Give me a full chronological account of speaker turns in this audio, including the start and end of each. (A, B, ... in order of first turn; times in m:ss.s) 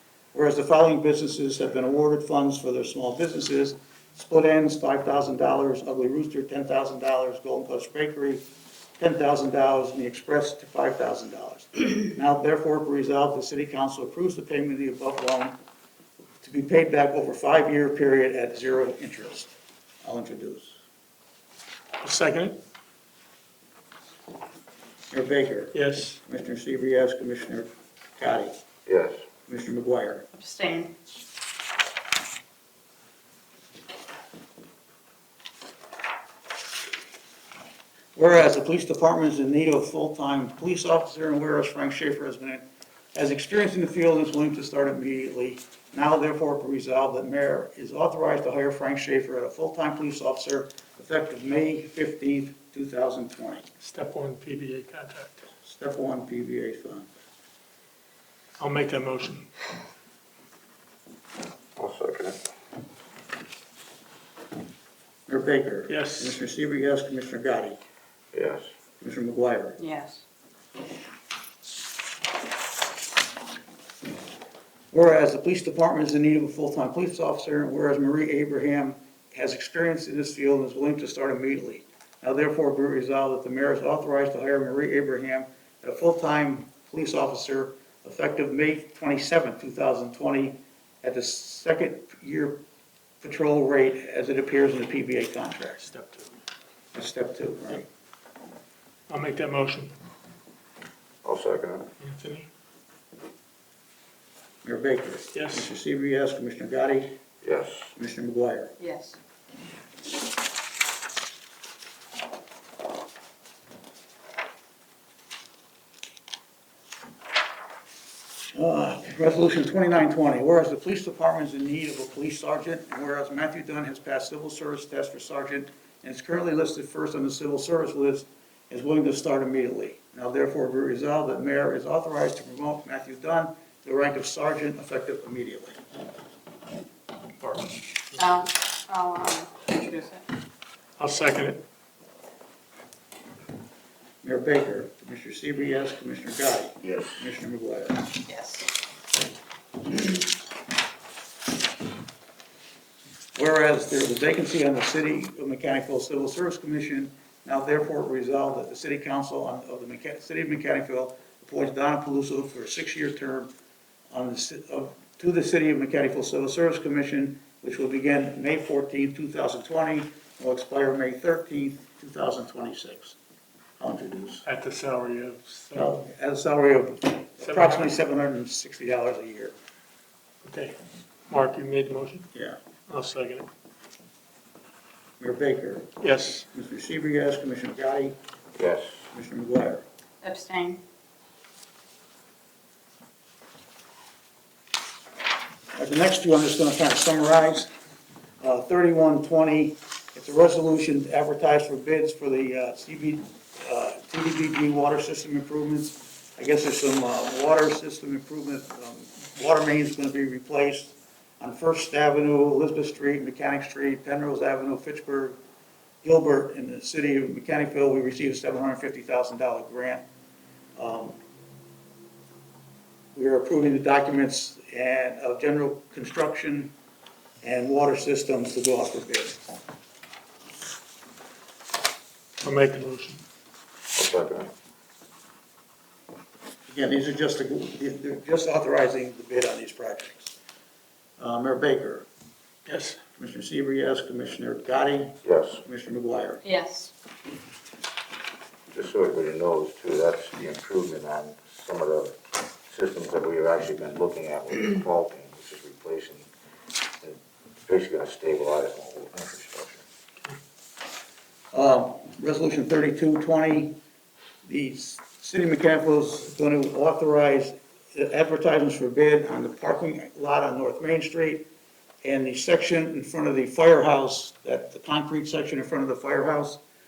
0:00.3-0:08.4 A
0:09.0-0:15.6 A
0:16.4-0:19.5 A
0:20.0-0:20.8 A
0:22.0-0:22.6 B
0:25.1-0:28.5 A
0:25.7-0:26.2 B
0:28.9-0:29.2 C
0:29.5-0:30.3 A
0:30.3-0:30.9 D
0:38.2-0:53.6 A
0:53.8-0:55.5 B
0:55.6-0:57.1 A
0:58.6-0:59.5 B
1:01.8-1:02.4 C
1:05.3-1:07.8 A
1:05.9-1:06.4 B
1:08.3-1:08.7 C
1:09.0-1:09.8 A
1:09.8-1:10.2 D
1:14.9-1:32.6 A
1:33.2-1:35.8 A
1:35.8-1:36.4 B
1:36.9-1:37.9 A
1:39.1-1:39.9 B
1:41.2-1:41.9 C
1:42.0-1:42.5 B
1:44.6-1:47.2 A
1:45.3-1:45.7 B
1:47.4-1:47.9 C
1:48.0-1:48.7 A
1:48.8-1:49.2 D
1:58.5-2:15.8 A
2:17.4-2:18.2 B
2:18.2-2:20.2 D
2:21.0-2:21.6 B
2:24.2-2:28.1 A
2:26.8-2:27.2 C
2:28.3-2:28.7 D
2:33.4-2:43.5 A
2:44.1-2:53.2 A
2:53.8-2:54.4 A
2:54.4-2:56.0 B
2:55.7-2:59.6 A
2:57.4-2:57.9 B
3:00.4-3:00.8 B
3:01.3-3:02.3 B
3:02.9-3:03.5 B
3:05.2-3:05.9 A
3:06.0-3:06.5 B
3:06.5-3:08.2 A
3:08.6-3:09.0 C
3:09.1-3:09.8 A
3:10.2-3:10.8 D
3:15.7-3:17.7 A
3:18.4-3:35.4 A
3:36.0-3:40.0 A
3:40.8-3:41.2 A
3:43.2-3:46.7 A
3:47.4-3:49.4 A
3:52.4-3:53.2 B
3:54.0-3:54.5 C
3:56.7-4:00.3 A
4:01.2-4:02.1 A
4:02.7-4:03.0 B
4:03.2-4:06.4 A
4:05.2-4:05.6 C
4:06.4-4:06.9 D
4:08.7-4:12.2 C
4:12.7-4:16.3 C
4:17.0-4:19.8 C
4:21.5-4:23.8 A
4:24.4-4:31.4 A
4:32.0-4:36.6 A